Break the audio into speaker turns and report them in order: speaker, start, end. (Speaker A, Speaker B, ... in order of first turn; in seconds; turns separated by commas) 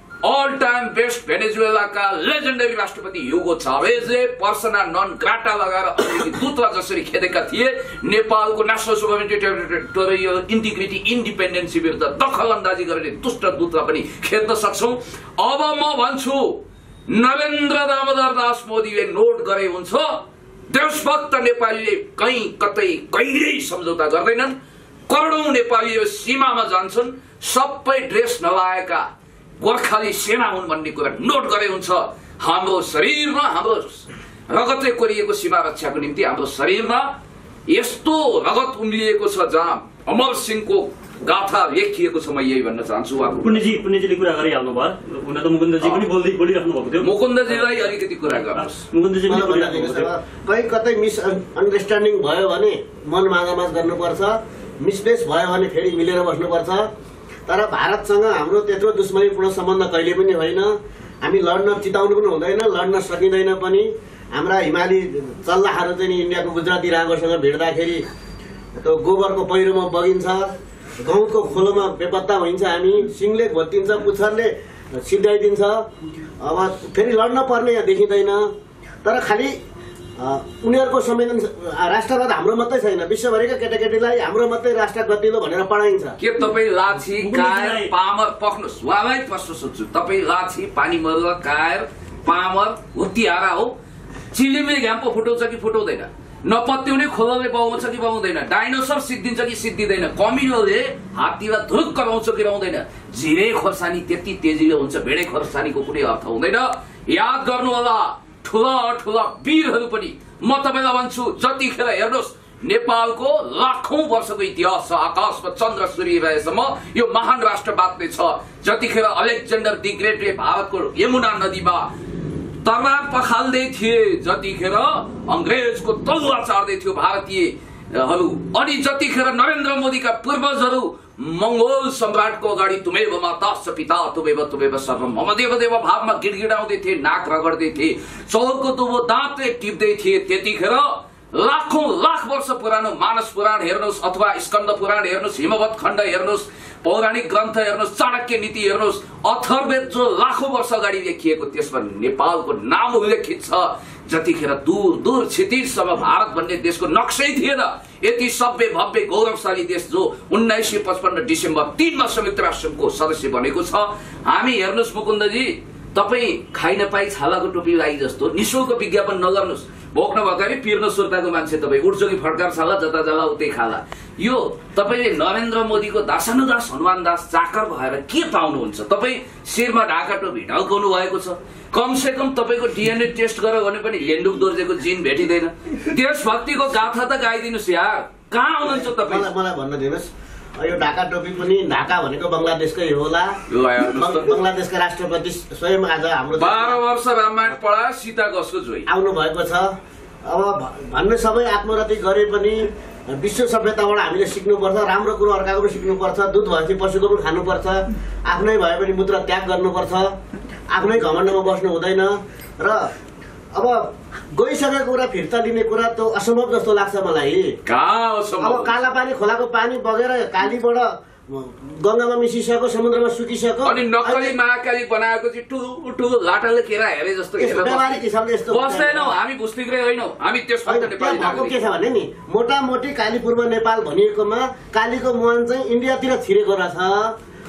Speaker A: 0.2-24.5, Speaker A: 25.1-29.1, Speaker A: 29.6-37.1, Speaker A: 37.7-43.6, Speaker B: 43.4-47.8, Speaker A: 47.0-48.8, Speaker B: 48.5-50.1, Speaker C: 49.2-56.9, Speaker C: 57.5-68.0, Speaker C: 68.8-75.9, Speaker C: 76.4-78.5, Speaker C: 79.0-79.5, Speaker C: 80.2-86.2, Speaker A: 86.2-93.7, Speaker B: 87.0-87.9, Speaker A: 94.3-121.9, Speaker A: 122.6-189.3, Speaker C: 188.6-196.8, Speaker A: 193.5-194.4, Speaker A: 196.4-198.9, Speaker C: 198.9-210.1, Speaker C: 210.7-212.9, Speaker C: 213.5-217.5, Speaker A: 217.7-218.8, Speaker C: 218.4-224.3, Speaker A: 223.6-231.6, Speaker C: 227.4-229.2, Speaker C: 230.7-237.2